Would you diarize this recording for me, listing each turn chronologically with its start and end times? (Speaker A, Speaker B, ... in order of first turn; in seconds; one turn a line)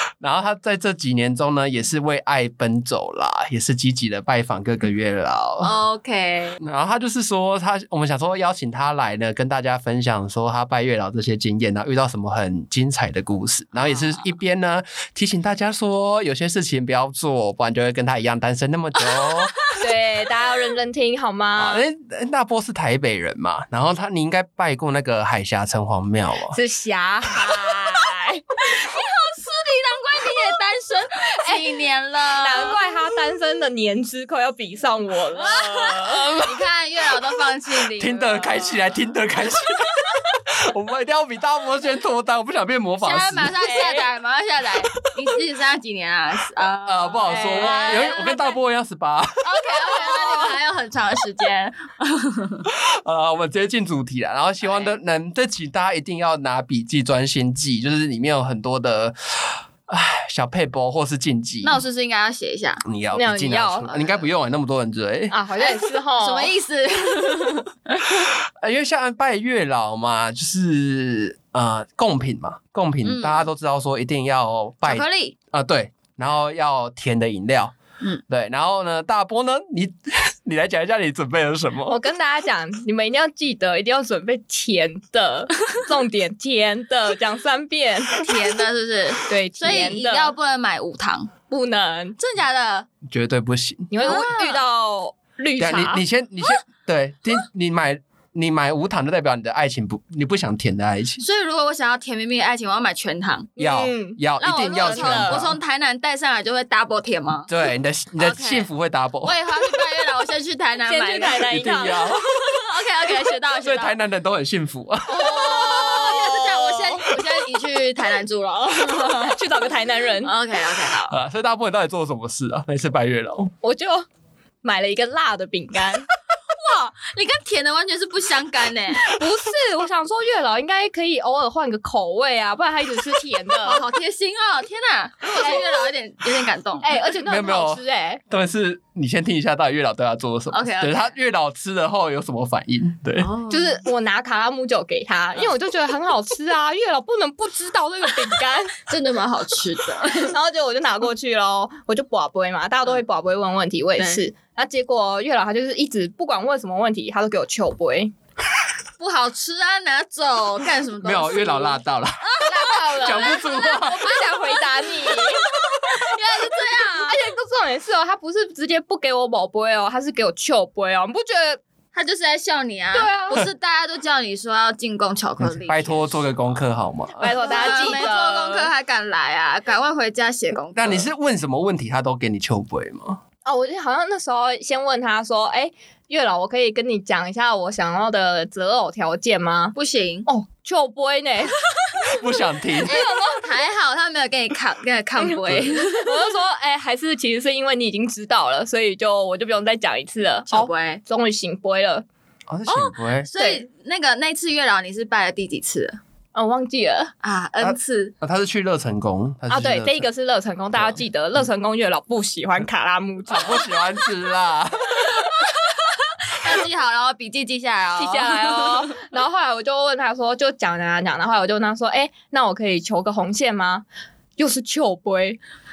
Speaker A: 0.2-5.8
Speaker B: 5.6-6.6
Speaker A: 6.6-19.6
Speaker B: 13.8-14.2
Speaker B: 19.0-19.8
Speaker C: 19.8-21.8
Speaker A: 21.6-26.6
Speaker C: 26.5-28.4
Speaker B: 27.2-27.8
Speaker B: 28.6-32.8
Speaker C: 31.3-31.7
Speaker C: 32.4-36.2
Speaker A: 35.7-36.7
Speaker B: 36.4-38.9
Speaker A: 37.9-43.5
Speaker B: 43.0-48.5
Speaker C: 43.6-44.1
Speaker A: 46.8-50.5
Speaker C: 47.2-48.5
Speaker B: 49.4-52.7
Speaker A: 52.6-61.8
Speaker B: 54.6-54.9
Speaker B: 61.6-62.8
Speaker A: 62.8-65.3
Speaker C: 63.1-64.0
Speaker B: 63.9-64.2
Speaker C: 65.3-66.5
Speaker B: 65.6-68.3
Speaker A: 68.2-77.7
Speaker B: 73.0-73.5
Speaker B: 74.8-75.4
Speaker A: 78.3-82.0
Speaker C: 81.9-88.2
Speaker B: 88.1-91.3
Speaker C: 89.3-90.3
Speaker C: 91.5-92.2
Speaker B: 92.2-92.9
Speaker A: 93.0-94.2
Speaker C: 93.9-96.0
Speaker B: 94.0-94.6
Speaker A: 95.6-101.2
Speaker B: 101.2-103.5
Speaker C: 103.6-105.4
Speaker A: 103.6-105.6
Speaker B: 104.4-107.5
Speaker A: 107.5-109.3
Speaker B: 108.2-108.7
Speaker B: 109.2-111.7
Speaker C: 110.8-112.2
Speaker A: 111.5-112.5
Speaker B: 112.2-114.0
Speaker A: 113.6-116.2
Speaker B: 115.1-119.4
Speaker C: 115.2-117.1
Speaker C: 118.9-120.3
Speaker B: 120.2-121.1
Speaker A: 121.1-123.5
Speaker C: 123.6-124.0
Speaker C: 124.6-126.1
Speaker B: 126.5-129.1
Speaker C: 129.0-133.8
Speaker B: 133.6-137.0
Speaker C: 135.3-135.9
Speaker C: 136.8-138.2
Speaker A: 137.2-143.3
Speaker B: 140.5-141.1
Speaker B: 143.2-143.8
Speaker C: 143.5-148.8
Speaker B: 148.9-150.3
Speaker C: 150.2-158.1
Speaker B: 154.0-154.2
Speaker B: 159.0-167.2
Speaker A: 161.0-164.2
Speaker C: 162.4-165.4
Speaker A: 165.7-166.1
Speaker C: 167.0-171.6
Speaker B: 171.9-176.6
Speaker C: 172.9-173.4
Speaker A: 175.4-177.5
Speaker C: 177.2-178.7
Speaker B: 177.4-181.1
Speaker A: 180.7-183.2
Speaker C: 183.4-191.6
Speaker B: 189.7-190.3
Speaker A: 192.1-193.0
Speaker C: 192.8-193.5
Speaker B: 192.8-196.3
Speaker C: 195.2-202.0
Speaker A: 195.4-195.7
Speaker B: 200.5-201.0
Speaker A: 202.5-203.3
Speaker C: 202.7-203.6
Speaker B: 203.2-206.0
Speaker C: 206.3-207.1
Speaker B: 207.2-208.1
Speaker A: 207.6-210.1
Speaker C: 209.5-213.7
Speaker A: 213.3-215.4
Speaker B: 216.3-219.0
Speaker C: 217.9-223.8
Speaker C: 224.4-225.4